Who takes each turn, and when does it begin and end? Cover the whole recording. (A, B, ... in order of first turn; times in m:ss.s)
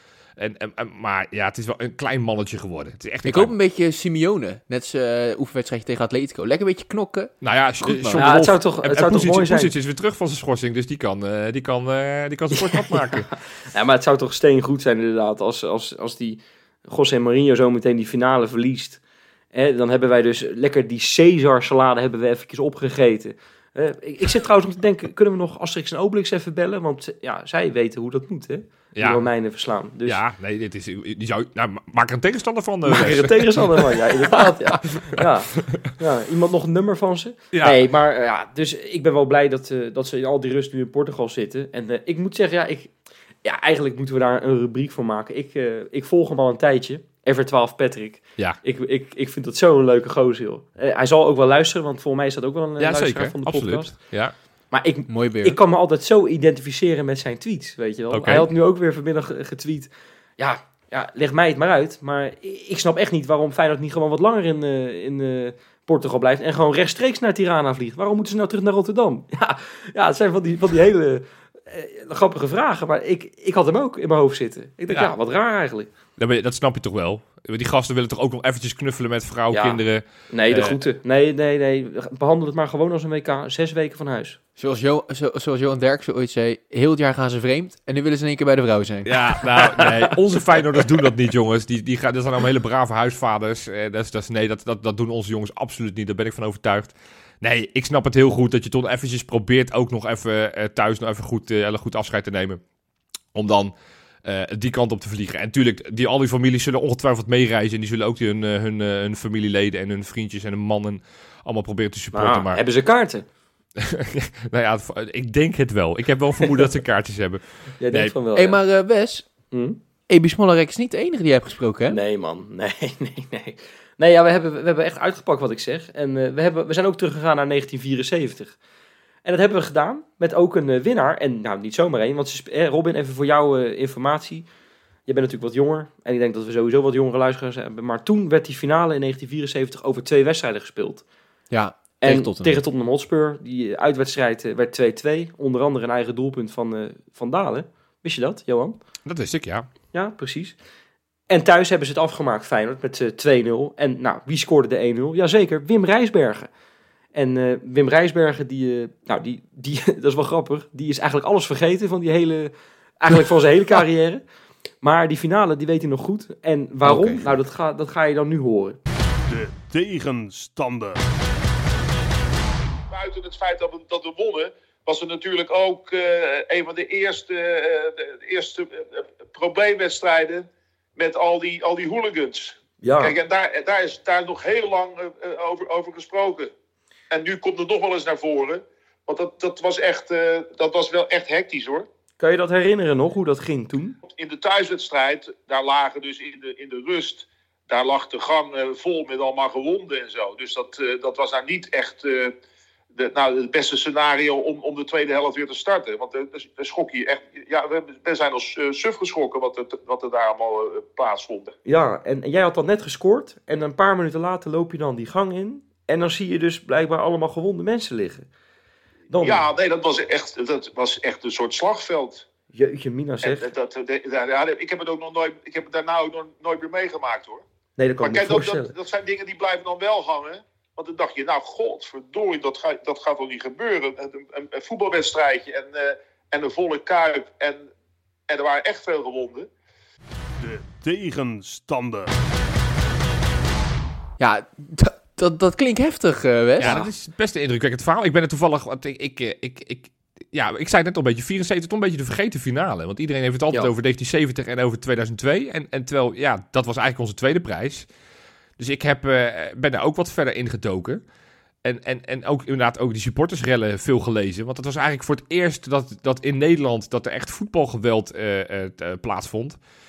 0:00.4-0:03.5 A
0:03.2-0:08.3 B
0:07.4-0:13.3 A
0:08.2-0:09.7 C
0:12.7-0:19.0 C
0:19.5-0:30.2 C
0:29.0-0:29.3 A
0:30.0-0:33.9 A
0:32.9-1:15.9 C
0:37.5-0:37.8 A
0:52.8-0:54.4 A
0:55.1-0:55.6 B
0:58.1-0:58.5 A
1:16.2-1:20.8 A
1:19.5-1:24.4 C
1:24.6-1:29.1 B
1:29.0-1:42.6 A
1:43.3-1:43.7 A
1:44.2-1:52.6 A
1:52.1-1:53.3 C
1:53.8-1:58.1 A
1:57.8-1:58.6 C
1:58.4-1:59.3 B
1:59.5-1:59.8 C
2:00.1-2:02.0 B
2:01.9-2:08.6 C
2:09.2-2:14.5 C
2:15.1-2:21.0 C
2:21.5-2:22.6 B
2:22.0-2:28.8 C
2:29.1-2:29.7 A
2:29.9-2:30.6 C
2:31.3-2:36.5 C
2:37.1-2:44.2 C
2:44.8-2:48.8 C
2:46.8-2:47.3 B
2:49.3-2:51.0 D
2:52.9-3:06.5 E
3:02.8-3:03.2 C
3:07.1-3:11.9 E
3:12.2-3:14.0 C
3:14.1-3:22.4 E
3:23.0-3:31.5 E
3:31.7-3:38.3 C
3:39.1-3:39.5 C
3:39.2-3:42.2 E
3:42.5-3:43.5 C
3:43.2-3:47.4 E
3:47.8-3:48.7 C
3:48.0-3:57.7 E
3:58.3-3:59.5 E
4:00.4-4:02.1 D
4:04.2-4:06.8 B
4:06.6-4:17.9 A
4:06.6-4:06.9 C
4:18.6-4:21.0 A
4:21.6-4:29.6 A